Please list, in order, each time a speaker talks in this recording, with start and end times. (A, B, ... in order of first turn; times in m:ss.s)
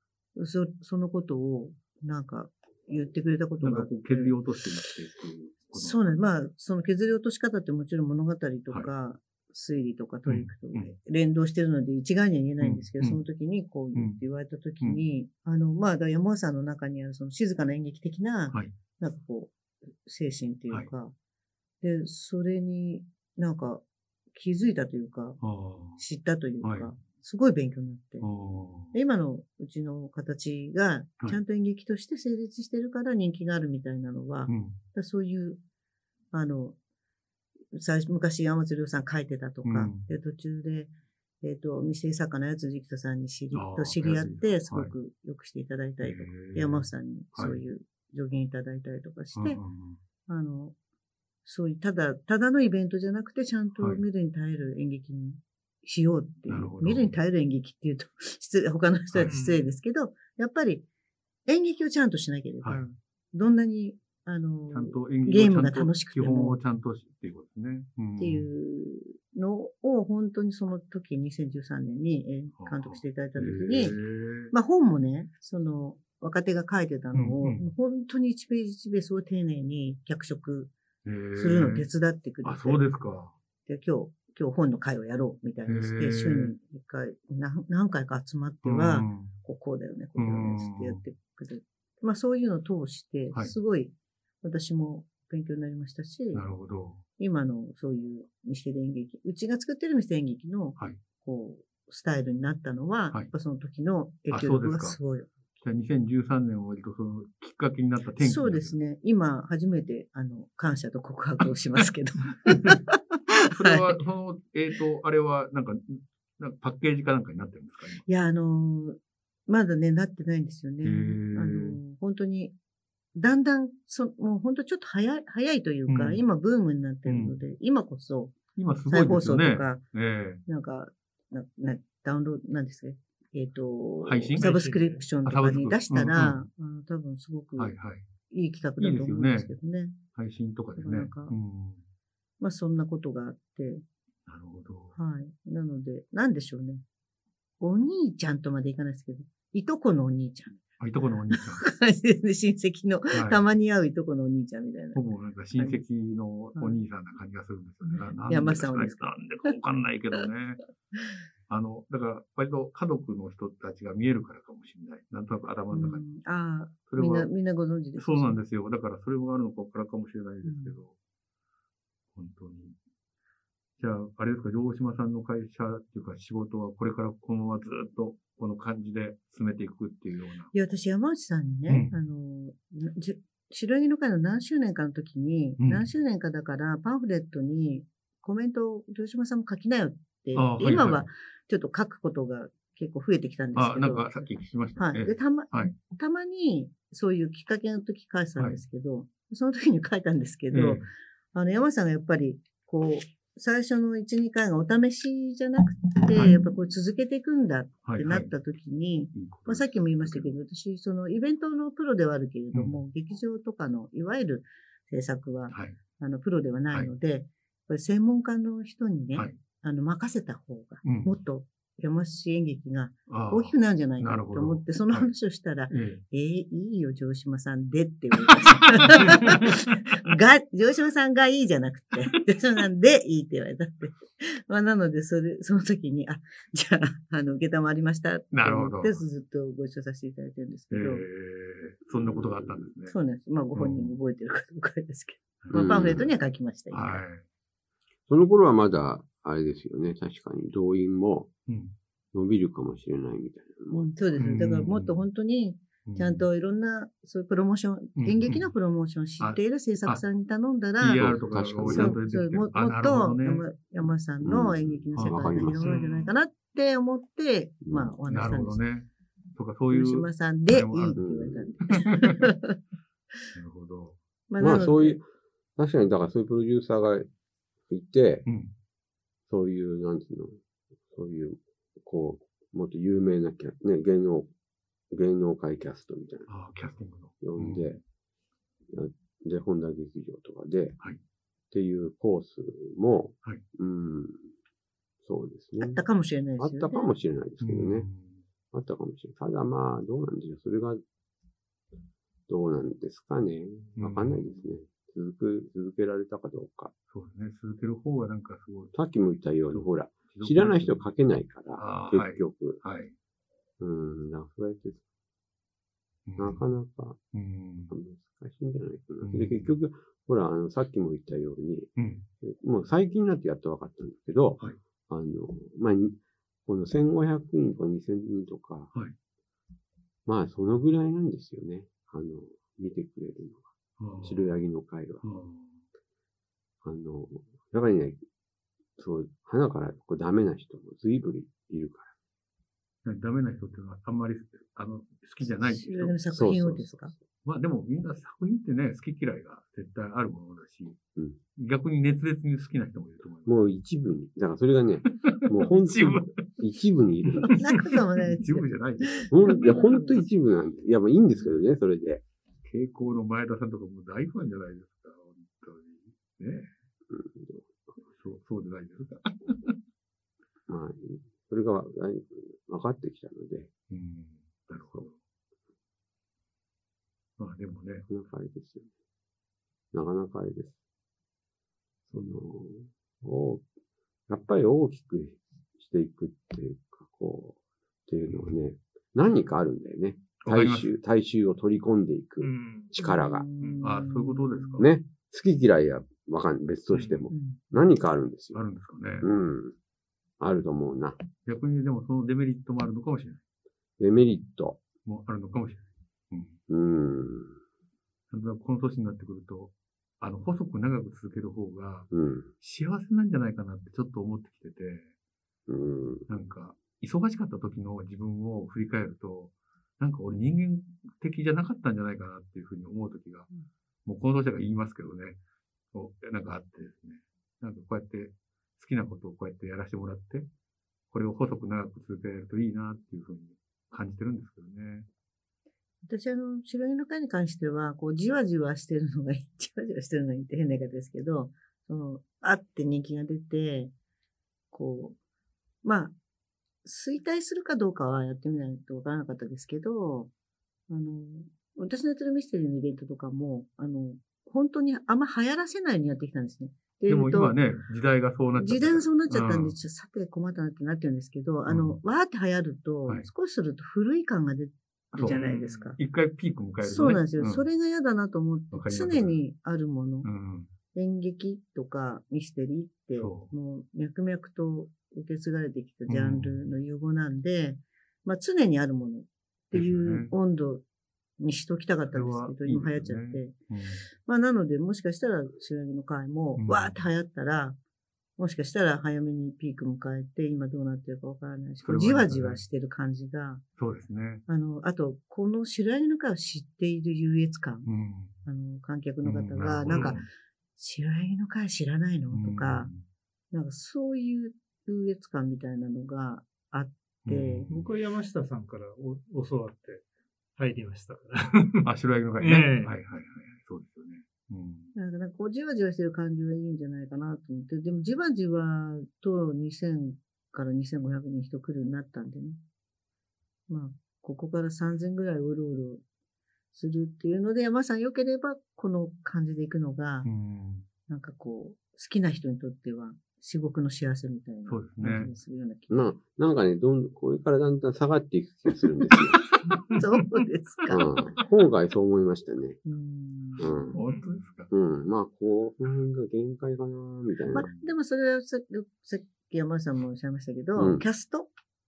0:00.4-0:04.4 A
0:03.6-0:06.2 B
0:05.7-0:21.1 A
0:10.3-0:10.9 B
0:12.6-0:13.2 B
0:13.9-0:14.2 B
0:21.8-0:25.4 A
0:25.4-0:26.0 B
0:26.0-0:28.3 A
0:26.6-0:26.9 B
0:28.2-0:29.0 B
0:28.9-0:35.6 A
0:34.5-0:34.8 B
0:36.3-0:36.8 A
0:37.7-0:49.6 A
0:39.6-0:40.1 B
0:43.5-0:44.9 B
0:46.0-0:47.6 B
0:49.4-0:50.0 B
0:50.3-0:50.7 A
0:51.4-1:00.8 A
0:56.5-0:57.1 B
0:59.3-0:59.7 C
1:01.5-1:06.6 A
1:04.7-1:08.5 B
1:08.2-1:14.0 A
1:12.6-1:14.5 B
1:14.5-1:20.7 A
1:17.1-1:17.7 B
1:21.0-1:21.9 B
1:21.4-1:22.8 A
1:22.4-1:23.4 B
1:23.7-1:36.4 A
1:25.7-1:26.5 B
1:28.6-1:29.3 B
1:30.2-1:31.0 B
1:36.3-1:37.0 B
1:37.2-1:45.3 A
1:44.3-1:45.0 B
1:45.6-1:48.8 B
1:48.2-1:54.0 A
1:52.5-1:52.7 B
1:53.5-1:58.0 B
1:58.1-2:02.5 A
2:00.8-2:01.8 B
2:03.2-2:08.4 A
2:05.9-2:06.2 B
2:07.1-2:07.4 B
2:08.6-2:10.4 B
2:08.9-2:09.8 A
2:10.5-2:17.8 A
2:14.0-2:14.5 B
2:14.4-2:15.0 C
2:15.2-2:16.4 B
2:17.6-2:18.0 B
2:18.3-2:20.0 A
2:18.8-2:19.5 B
2:20.1-2:21.8 B
2:20.8-2:21.4 A
2:22.4-2:23.8 A
2:24.3-2:25.0 B
2:25.0-2:26.8 A
2:27.6-2:30.6 A
2:30.8-2:31.6 B
2:31.3-2:35.0 A
2:33.1-2:33.4 B
2:35.0-2:40.6 B
2:37.8-2:39.6 A
2:41.5-2:46.0 B
2:45.7-2:48.4 A
2:46.9-2:47.3 B
2:48.0-2:50.9 B
2:50.4-2:50.7 A
2:52.2-2:52.8 B
2:53.8-3:00.5 B
3:00.5-4:01.1 A
3:01.7-3:01.9 B
3:05.6-3:05.9 B
3:10.3-3:11.0 B
3:13.6-3:15.7 B
3:20.5-3:20.8 B
3:26.1-3:26.4 B
3:27.8-3:28.3 B
3:29.1-3:30.3 B
3:35.5-3:35.8 B
3:40.8-3:41.2 B
3:43.1-3:45.1 B
3:45.7-3:46.0 B
3:48.6-3:49.4 B
3:58.3-3:59.0 B
4:00.7-4:03.0 B
4:01.9-4:02.6 D
4:02.9-4:07.0 A
4:03.5-4:04.0 B
4:05.4-4:06.1 B
4:05.5-4:06.1 D
4:06.7-4:07.2 B
4:08.1-4:11.3 D
4:11.5-4:11.7 B
4:12.1-4:13.9 D
4:13.7-4:21.1 A
4:14.2-4:15.0 B
4:15.9-4:16.3 B
4:18.0-4:18.5 B
4:19.2-4:20.0 B
4:20.8-4:23.4 B
4:21.0-4:22.0 D
4:21.7-4:28.6 A
4:24.2-4:25.8 D
4:25.0-4:26.1 B
4:27.6-4:27.9 D
4:28.1-4:31.0 B
4:29.7-4:32.6 A
4:31.0-4:31.5 D
4:31.7-4:32.2 B
4:33.3-4:34.0 B
4:34.3-4:35.0 A
4:34.4-4:35.0 D
4:35.6-4:37.1 D
4:37.7-4:38.3 D
4:39.3-4:40.4 D
4:40.9-4:44.3 D
4:44.9-4:46.3 D
4:46.3-4:47.8 B
4:47.2-4:47.8 D
4:48.7-4:50.8 D
4:51.5-4:54.3 D
4:55.0-4:55.8 D
4:55.6-4:56.9 A
4:56.4-4:57.9 D
4:57.4-4:58.2 B
4:58.5-5:00.8 D
5:02.3-5:06.7 D
5:03.8-5:04.3 B
5:06.9-5:08.8 B
5:08.7-5:12.6 D
5:09.5-5:10.8 B
5:11.6-5:12.9 B
5:13.6-5:14.8 D
5:16.1-5:16.4 B
5:16.2-5:17.0 D
5:17.1-5:17.7 B
5:17.7-5:28.7 D
5:19.0-5:19.5 B
5:21.8-5:22.0 B
5:30.1-5:33.5 D
5:33.8-5:34.4 B
5:34.0-5:35.0 D
5:35.0-5:35.6 B
5:36.6-5:38.0 D
5:38.8-5:41.9 D
5:42.8-5:46.0 B
5:45.2-5:46.9 A
5:46.1-5:47.0 D
5:47.2-5:50.8 B
5:51.4-5:53.5 B
5:53.3-5:57.4 D
5:55.0-5:56.2 B
5:57.2-5:59.8 B
5:57.2-6:00.0 A
5:59.1-6:02.0 D
6:02.4-6:06.5 B
6:06.9-6:07.7 D
6:07.9-6:09.6 B
6:10.5-6:13.5 D
6:13.7-6:15.0 B
6:14.6-6:14.8 D
6:17.2-6:17.9 B
6:17.9-6:18.7 D
6:19.7-6:20.6 D
6:21.9-6:23.4 D
6:24.1-6:33.3 D
6:30.2-6:30.7 B
6:32.2-6:32.7 C
6:32.8-6:34.6 A
6:33.6-6:34.7 B
6:34.6-6:38.4 D
6:36.7-6:37.1 C
6:37.1-6:37.4 A
6:38.3-6:39.1 B
6:39.0-6:39.6 D
6:40.2-6:41.0 D
6:41.2-6:43.2 B
6:43.8-6:44.6 D
6:44.8-6:46.4 B
6:46.5-6:47.4 D
6:48.1-6:51.9 B
6:51.9-6:52.3 D
6:52.4-6:54.9 B
6:55.5-6:56.1 D
6:56.1-7:03.3 B
7:03.9-7:05.2 B
7:05.7-7:10.3 B
7:10.9-7:14.9 B
7:15.8-7:23.7 A
7:24.5-7:25.0 A
7:25.6-7:26.0 A
7:26.6-7:30.1 A
7:30.7-7:37.4 A
7:36.9-7:39.6 B
7:38.4-7:45.8 A
7:41.5-7:41.8 B
7:44.9-7:45.2 B
7:45.0-7:45.8 C
7:45.8-7:47.4 B
7:46.6-7:50.1 A
7:48.5-7:49.2 B
7:50.0-7:50.5 B
7:50.7-8:00.6 A
7:52.9-7:53.3 B
7:55.9-7:56.4 B
7:59.5-8:00.1 B
8:01.2-8:03.3 A
8:01.9-8:03.9 B
8:04.0-8:07.6 A
8:06.4-8:06.8 B
8:08.2-8:13.4 A
8:11.6-8:12.4 B
8:13.6-8:14.2 B
8:14.3-8:17.7 A
8:17.6-8:18.1 B
8:18.2-8:22.7 A
8:19.0-8:20.1 B
8:19.7-8:20.0 C
8:22.1-8:22.8 B
8:23.3-8:27.5 A
8:27.0-8:27.6 B
8:27.5-8:29.8 C
8:30.4-8:31.7 C
8:31.6-8:34.7 B
8:32.2-8:32.8 C
8:34.8-8:42.4 A
8:43.5-8:45.8 A
8:46.5-8:50.1 A
8:50.0-8:50.7 B
8:50.9-8:55.9 A
8:54.5-8:55.1 B
8:55.7-8:59.3 D
8:59.7-9:01.0 A
9:00.7-9:02.6 D
9:02.6-9:03.7 A
9:03.4-9:03.8 D
9:03.7-9:04.5 B
9:03.8-9:04.3 C
9:04.5-9:07.5 D
9:07.3-9:11.3 A
9:07.4-9:07.7 B
9:10.6-9:10.8 D